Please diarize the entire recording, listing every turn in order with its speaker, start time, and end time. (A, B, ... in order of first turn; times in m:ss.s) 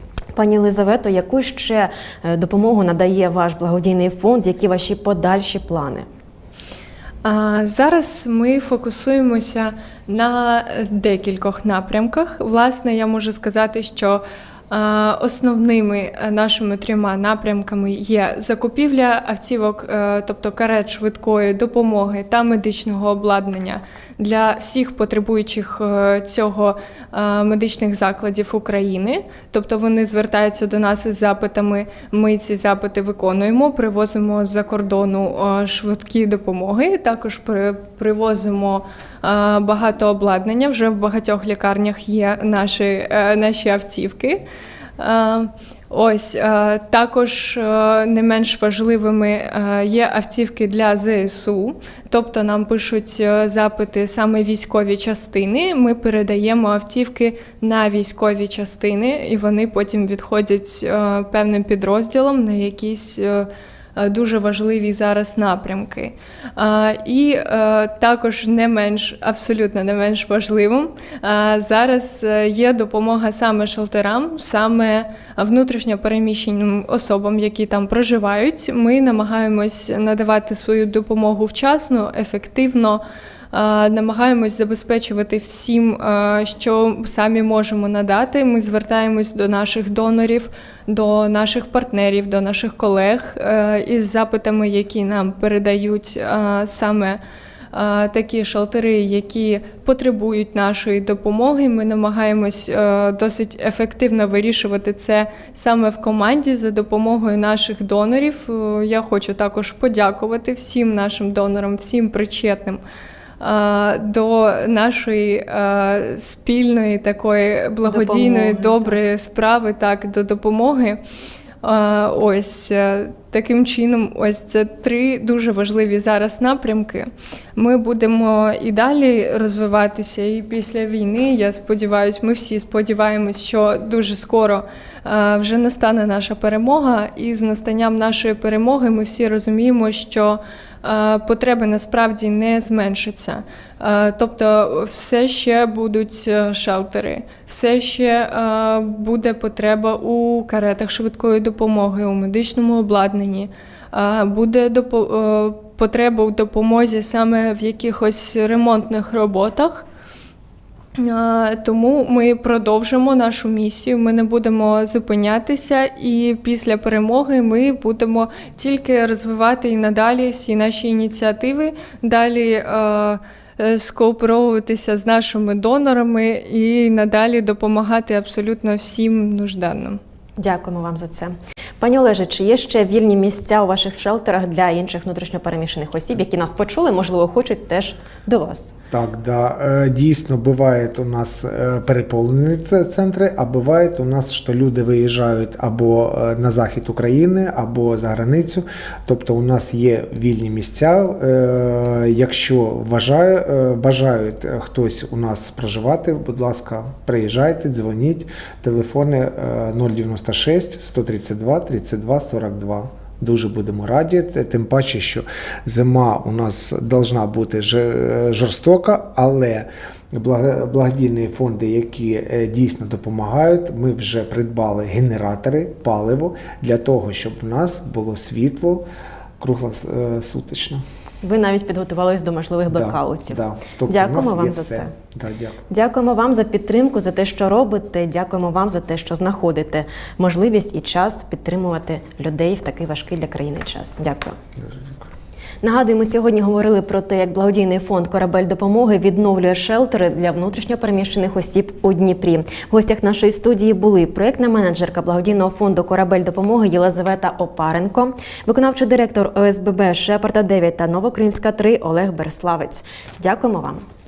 0:00.4-0:06.1 A
0:07.2-0:44.4 B
0:45.0-1:37.2 B
1:37.7-1:52.8 B
1:53.4-2:01.0 B
1:57.9-1:59.0 A
2:01.6-2:39.8 B
2:41.0-3:00.0 B
3:00.4-3:08.7 A
3:08.9-3:48.9 C
3:49.4-3:50.8 C
3:51.2-3:54.9 A
3:52.7-3:55.6 C
3:55.7-4:04.4 A
4:04.6-4:05.1 C
4:05.6-4:23.8 A